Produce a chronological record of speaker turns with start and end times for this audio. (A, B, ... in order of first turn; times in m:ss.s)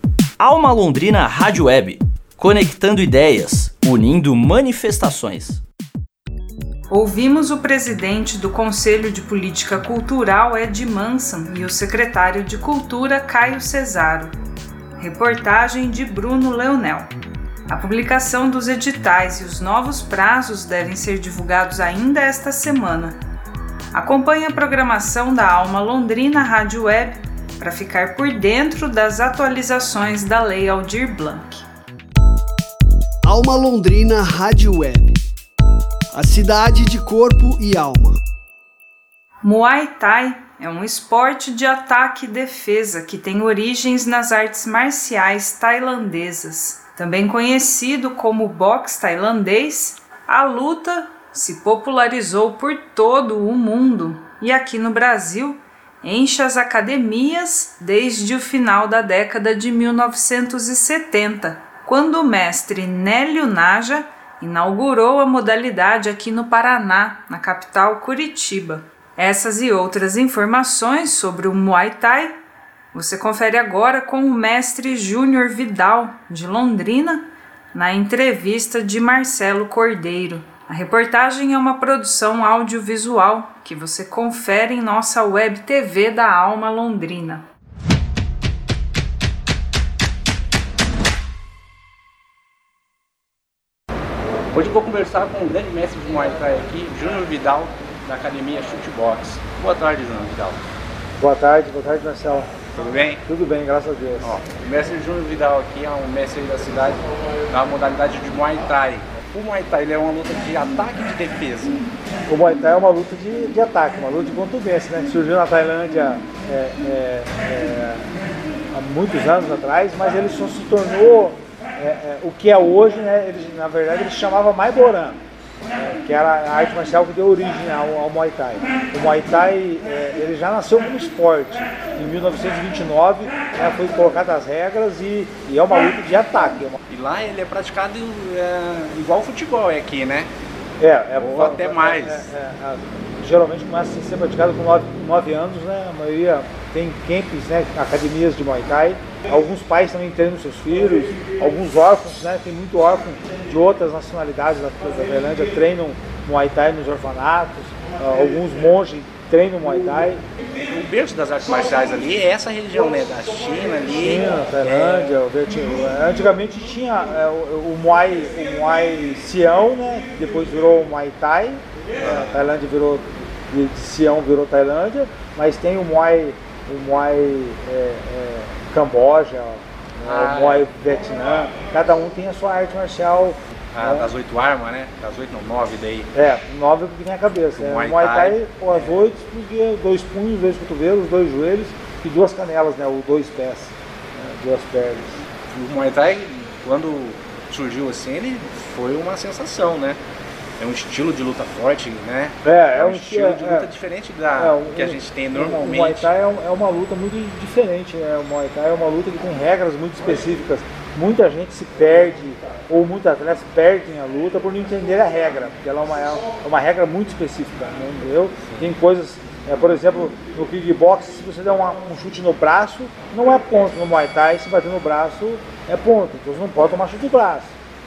0:00.4-0:05.6 A
0:06.9-0:14.3 B
0:15.0-0:17.1 B
0:17.7-0:23.2 B
0:23.9-0:31.6 B
0:33.2-0:35.2 C
0:36.1-0:38.2 C
0:39.4-1:12.4 B
1:12.9-1:27.4 B
1:34.5-1:40.6 D
1:41.2-1:42.5 E
1:42.8-1:43.2 D
1:43.2-1:44.4 E
1:44.2-1:51.8 D
1:52.3-1:58.1 E
1:58.7-2:05.2 E
2:05.8-2:16.8 E
2:16.9-2:20.3 D
2:20.8-2:40.2 E
2:21.2-2:22.3 D
2:40.7-2:45.1 D
2:44.0-3:04.1 E
2:52.0-2:52.3 D
3:00.0-3:00.7 D
3:03.7-3:06.1 D
3:06.1-3:15.1 E
3:07.6-3:09.0 D
3:15.5-3:20.0 D
3:20.6-3:26.1 D
3:22.4-3:23.7 E
3:24.4-3:47.5 E
3:38.4-3:38.7 D